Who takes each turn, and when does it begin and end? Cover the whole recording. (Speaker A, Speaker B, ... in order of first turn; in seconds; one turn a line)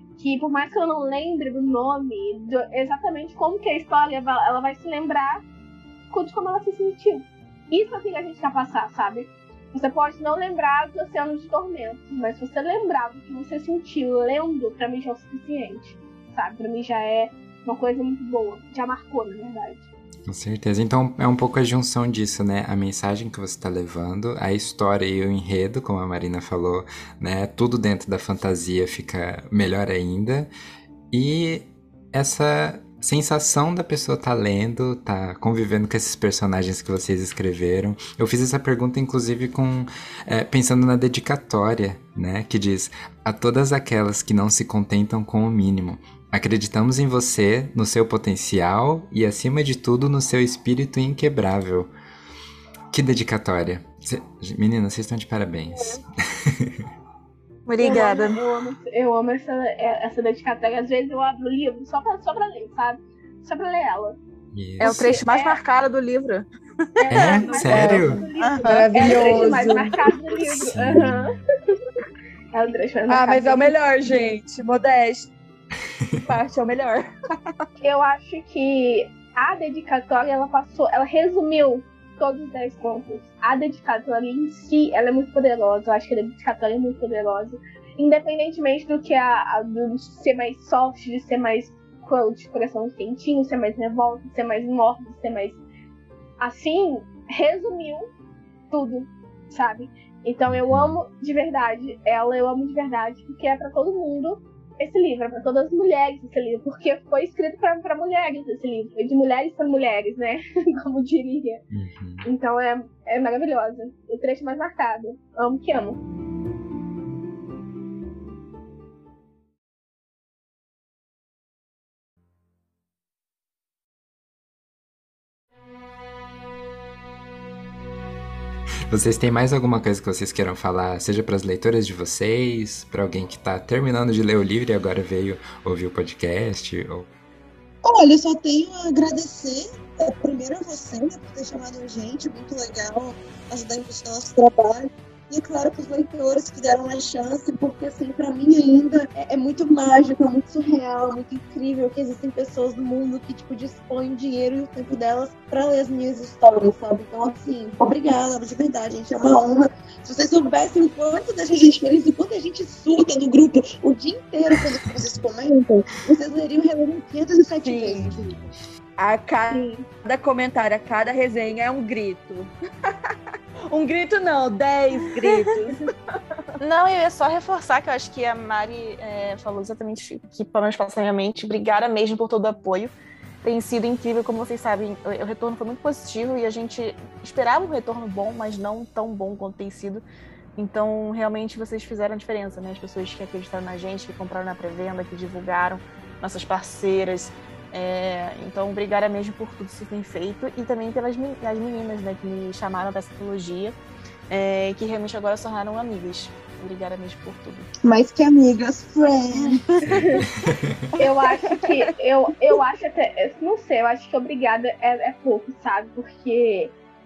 Speaker A: 0.2-5.4
Speaker A: 6.1-19.9
Speaker B: 20.3-30.5
Speaker B: 31.1-51.9
Speaker B: 52.9-56.9
Speaker C: 57.7-58.4
Speaker A: 57.8-64.2
Speaker B: 64.5-65.0
Speaker A: 64.8-65.6
Speaker C: 64.8-66.5
Speaker A: 67.0-71.3
Speaker C: 67.0-70.0
Speaker B: 67.1-68.2
Speaker D: 67.7-70.0
Speaker B: 70.7-71.3
Speaker A: 72.5-73.8
Speaker D: 73.1-75.3
Speaker D: 76.3-77.1
Speaker A: 77.8-95.6
Speaker A: 96.4-98.1
Speaker A: 98.7-111.6
Speaker B: 100.5-101.0
Speaker B: 111.7-112.3
Speaker A: 112.2-116.0
Speaker B: 128.9-137.1
Speaker E: 137.8-168.3
Speaker D: 167.6-168.3
Speaker B: 168.0-168.5
Speaker D: 169.0-173.1
Speaker A: 169.5-169.8
Speaker D: 173.7-175.8
Speaker C: 176.6-190.1
Speaker C: 190.6-203.8
Speaker C: 204.3-207.7
Speaker E: 207.8-209.9
Speaker B: 209.8-210.8
Speaker A: 211.0-216.7